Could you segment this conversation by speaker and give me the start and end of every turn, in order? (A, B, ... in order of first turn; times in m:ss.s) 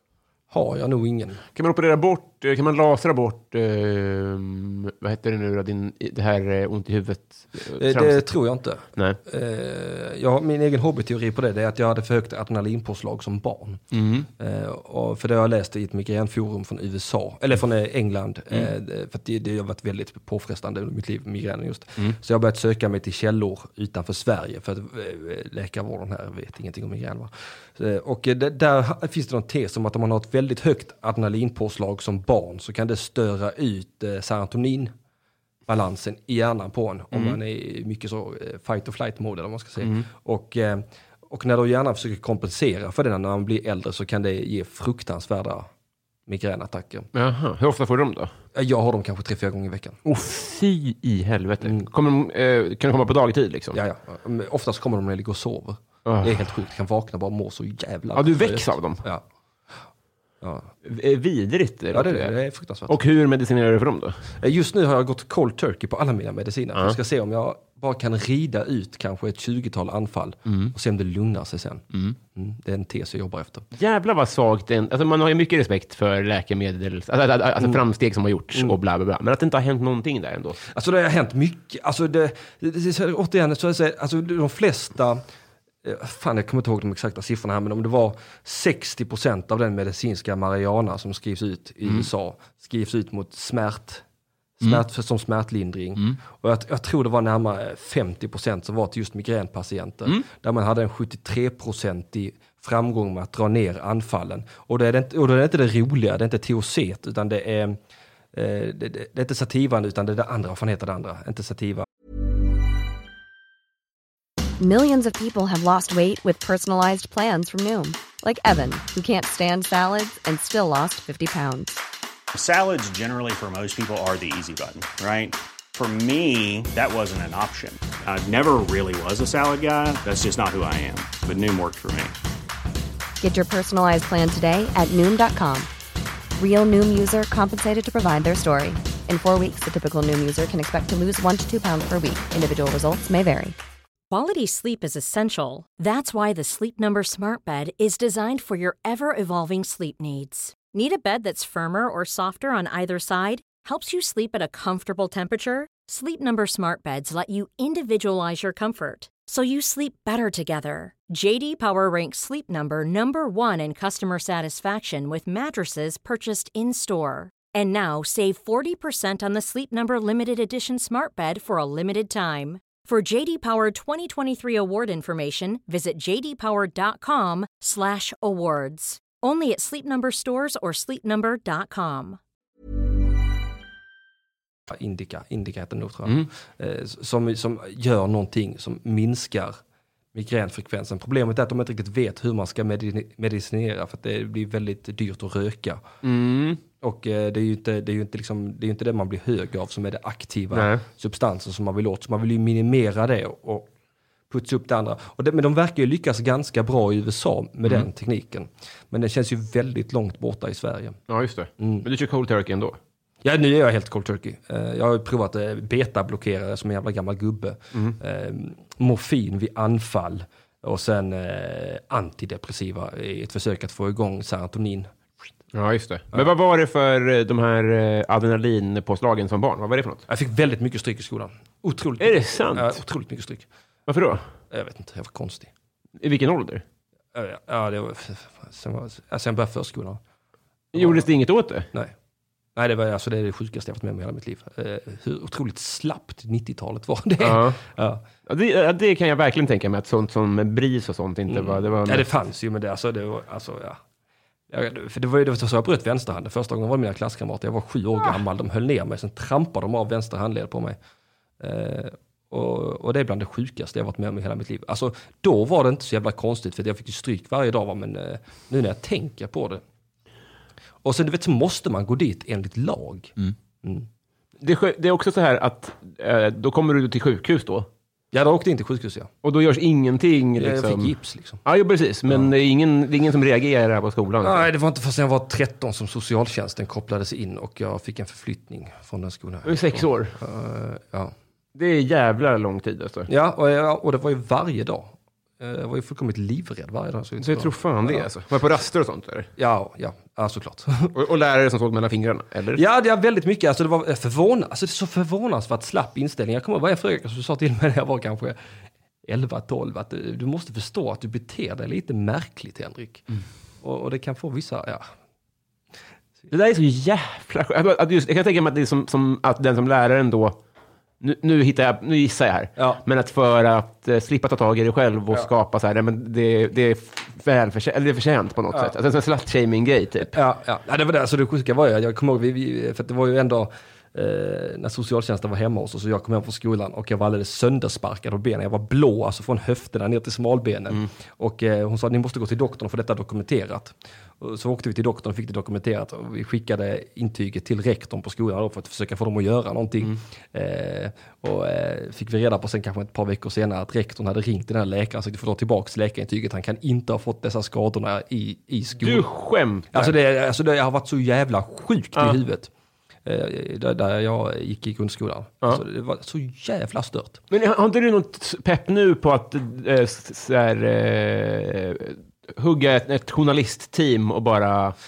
0:00.5-0:01.4 A
0:01.5-0:08.2 B
0:07.8-0:13.8 A
0:13.9-0:14.3 B
0:14.4-0:34.9 A
0:35.7-0:45.7 A
0:37.1-0:37.4 B
0:39.8-0:40.0 B
0:46.3-0:47.1 A
0:47.1-0:48.3 B
0:48.5-0:50.0 A
0:50.0-0:53.8 B
0:53.7-0:59.2 A
0:56.0-0:56.4 B
0:58.1-0:59.0 B
1:00.4-1:00.7 A
1:00.8-1:02.3 B
1:01.9-1:03.0 A
1:02.9-1:04.2 B
1:04.4-1:13.6 A
1:13.8-1:20.6 B
1:20.7-1:25.2 A
1:25.8-1:34.0 A
1:34.6-1:47.8 A
1:48.3-1:51.9 A
1:54.6-2:01.8 C
2:02.3-2:12.1 D
2:13.2-2:15.7 C
2:16.4-2:23.6 C
2:24.1-3:02.2 E
3:04.7-3:09.6 A
3:10.1-3:15.8 A
3:16.0-3:16.6 B
3:16.8-3:23.7 A
3:20.5-3:20.8 B
3:24.3-3:31.0 A
3:31.1-3:32.8 B
3:31.6-3:31.8 A
3:33.2-3:44.9 A
3:45.5-3:50.0 B
3:50.1-3:53.5 A
3:52.0-3:52.7 B
3:53.9-3:54.2 B
3:54.5-3:55.5 A
3:56.0-3:56.6 B
3:57.1-4:00.0 A
4:00.7-4:01.7 B
4:00.7-4:01.1 A
4:02.6-4:08.0 A
4:07.2-4:07.6 B
4:08.3-4:12.1 B
4:11.3-4:13.8 A
4:14.5-4:20.8 A
4:21.4-4:29.6 A
4:30.8-4:33.9 A
4:34.4-4:37.7 B
4:38.1-4:39.1 A
4:39.2-4:40.9 B
4:40.4-4:41.4 A
4:41.4-4:44.4 B
4:44.2-4:51.1 A
4:49.4-4:50.1 B
4:51.5-4:53.1 B
4:53.1-4:58.0 A
4:57.2-4:59.3 B
4:59.4-5:00.9 A
5:00.9-5:02.6 B
5:02.5-5:08.4 A
5:09.0-5:13.0 A
5:13.6-5:14.8 A
5:16.3-5:20.4 B
5:21.0-5:30.2 B
5:22.6-5:22.8 A
5:30.1-5:59.1 A
5:58.8-5:59.9 B
5:59.7-6:02.5 A
6:03.0-6:07.2 A
6:07.3-6:14.7 B